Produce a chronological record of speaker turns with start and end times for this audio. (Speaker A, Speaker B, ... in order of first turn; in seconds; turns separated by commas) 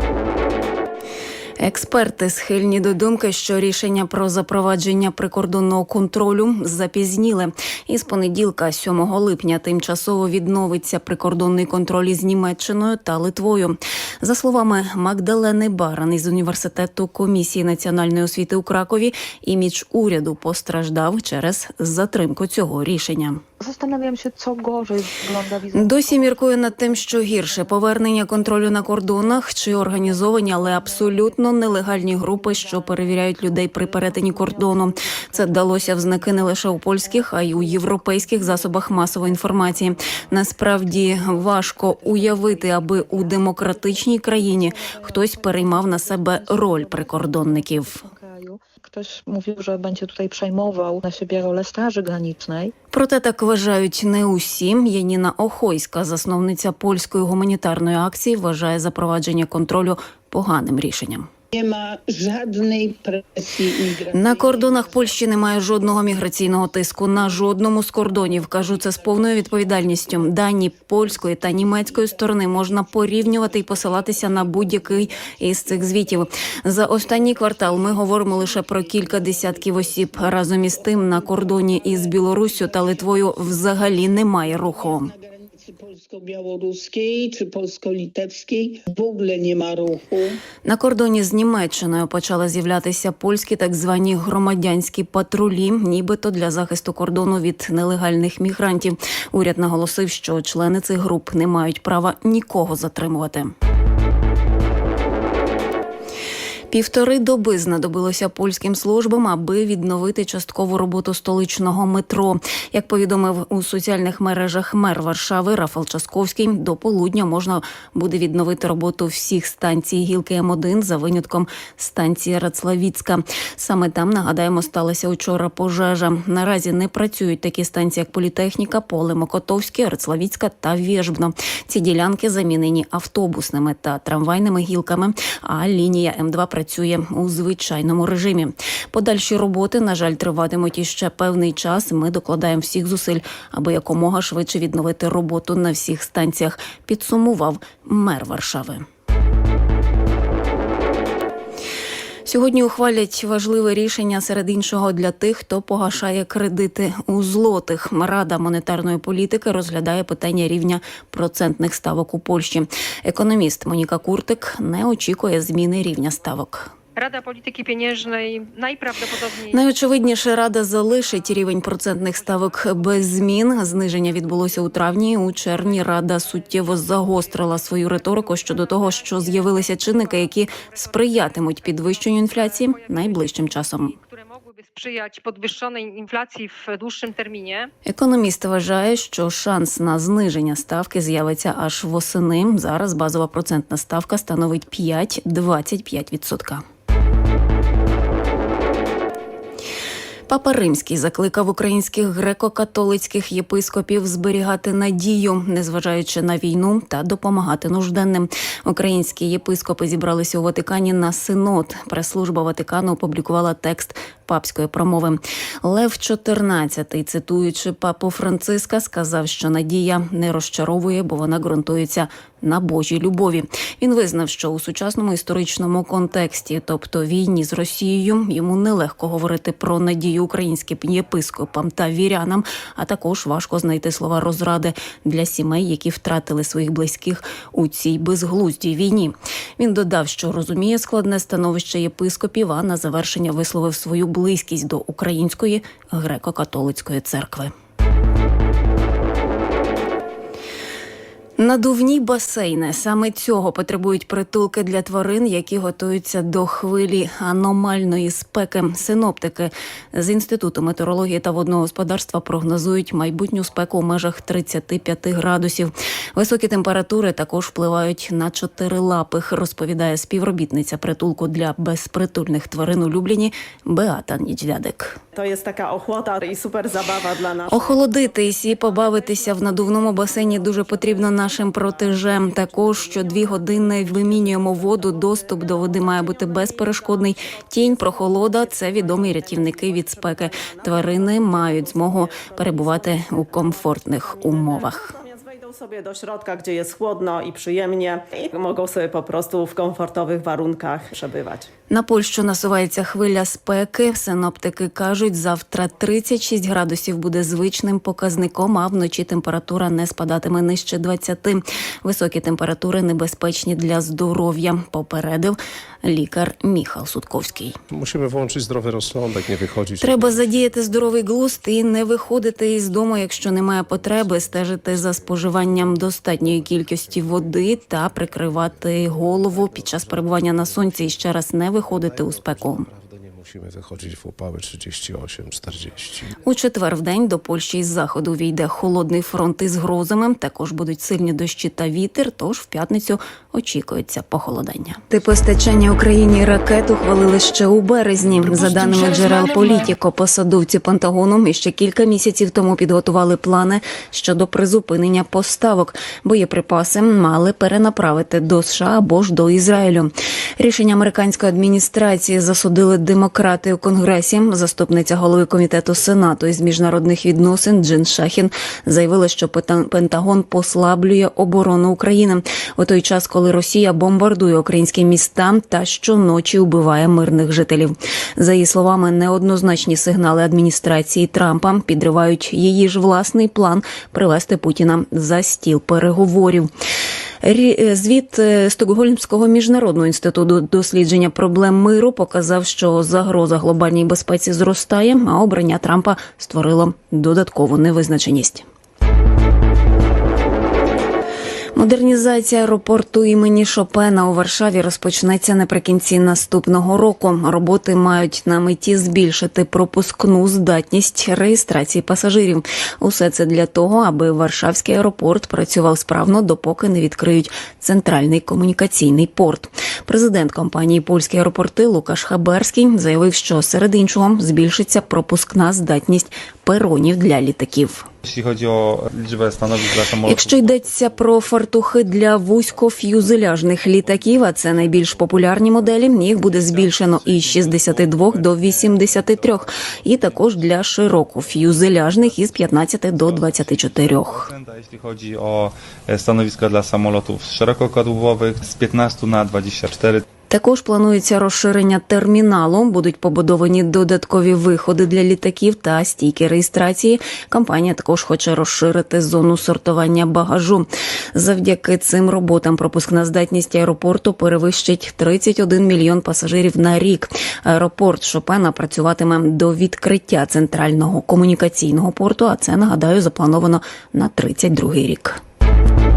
Speaker A: 1.6-23.4, Speaker B: 23.6-52.7, Speaker A: 25.7-48.1, Speaker A: 52.9-61.3, Speaker C: 61.5-65.0, Speaker A: 64.1-85.1, Speaker C: 65.6-66.3, Speaker C: 68.3-70.3, Speaker C: 70.9-90.4, Speaker A: 90.7-103.5, Speaker A: 106.7-148.9, Speaker A: 152.2-166.7, Speaker D: 167.0-170.1, Speaker A: 169.5-183.9, Speaker D: 172.2-173.0, Speaker D: 175.6-175.9, Speaker D: 177.4-187.7, Speaker A: 187.9-196.6, Speaker A: 200.3-247.5, Speaker A: 251.4-275.0, Speaker E: 275.1-301.5, Speaker A: 277.5-294.9, Speaker A: 301.7-317.6, Speaker F: 317.7-336.2, Speaker A: 319.8-332.7, Speaker A: 336.2-386.5, Speaker A: 387.2-398.4, Speaker A: 401.6-427.9, Speaker G: 428.0-431.3, Speaker A: 430.0-444.3, Speaker G: 434.5-435.0, Speaker G: 436.3-450.0, Speaker A: 450.3-475.2